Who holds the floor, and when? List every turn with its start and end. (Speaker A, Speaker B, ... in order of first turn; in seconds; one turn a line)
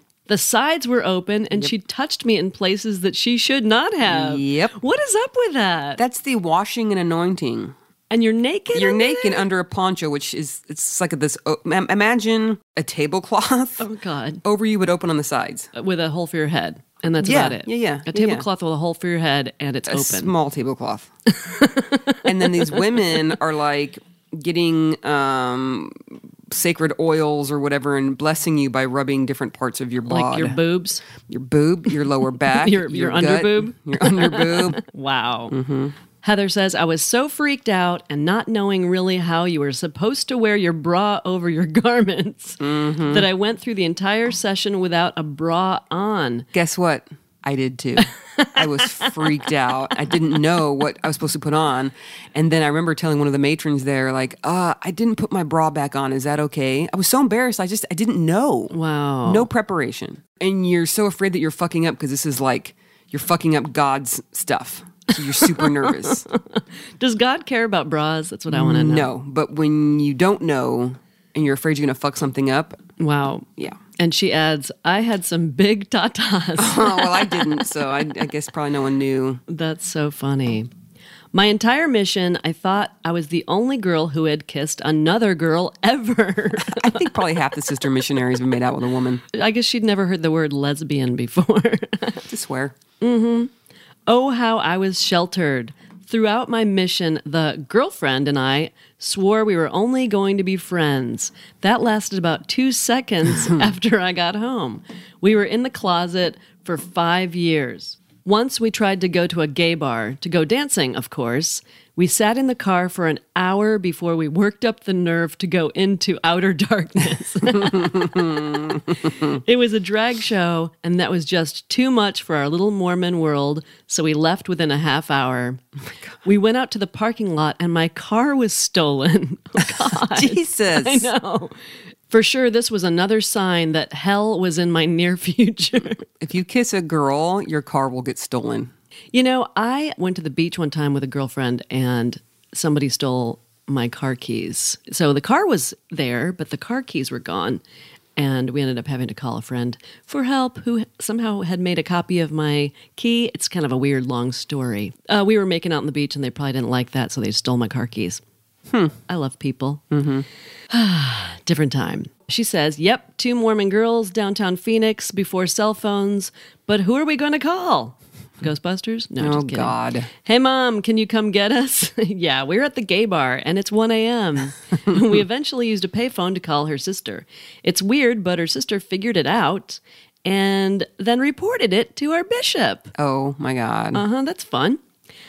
Speaker A: 0.3-6.0
Speaker B: 4.0-4.8
Speaker B: 6.0-7.7
Speaker A: 8.1-9.5
Speaker B: 8.7-13.8
Speaker A: 13.8-14.4
Speaker B: 14.4-15.7
Speaker A: 15.7-20.3
Speaker B: 17.2-18.4
Speaker B: 19.9-21.1
Speaker A: 21.4-22.9
Speaker B: 22.2-30.6
Speaker A: 30.1-31.0
Speaker B: 31.3-34.8
Speaker A: 32.5-35.5
Speaker B: 35.5-35.9
Speaker A: 36.2-46.5
Speaker B: 42.6-43.3
Speaker B: 46.5-58.7
Speaker A: 48.0-49.5
Speaker A: 58.7-59.5
Speaker B: 59.2-66.2
Speaker A: 65.3-69.1
Speaker B: 68.5-72.8
Speaker A: 73.0-77.5
Speaker B: 76.6-79.4
Speaker A: 79.5-80.7
Speaker A: 81.3-87.1
Speaker B: 86.6-89.2
Speaker A: 89.3-92.2
Speaker B: 92.3-92.7
Speaker A: 93.0-93.5
Speaker A: 94.1-118.3
Speaker B: 117.6-119.3
Speaker A: 119.0-125.6
Speaker A: 126.2-131.5
Speaker B: 130.1-131.1
Speaker A: 132.1-136.0
Speaker B: 136.2-138.7
Speaker A: 139.1-147.6
Speaker A: 148.2-158.2
Speaker B: 158.7-158.9
Speaker A: 159.1-159.8
Speaker B: 159.9-160.2
Speaker A: 160.7-182.9
Speaker B: 169.2-170.1
Speaker B: 182.9-184.0
Speaker A: 183.9-184.8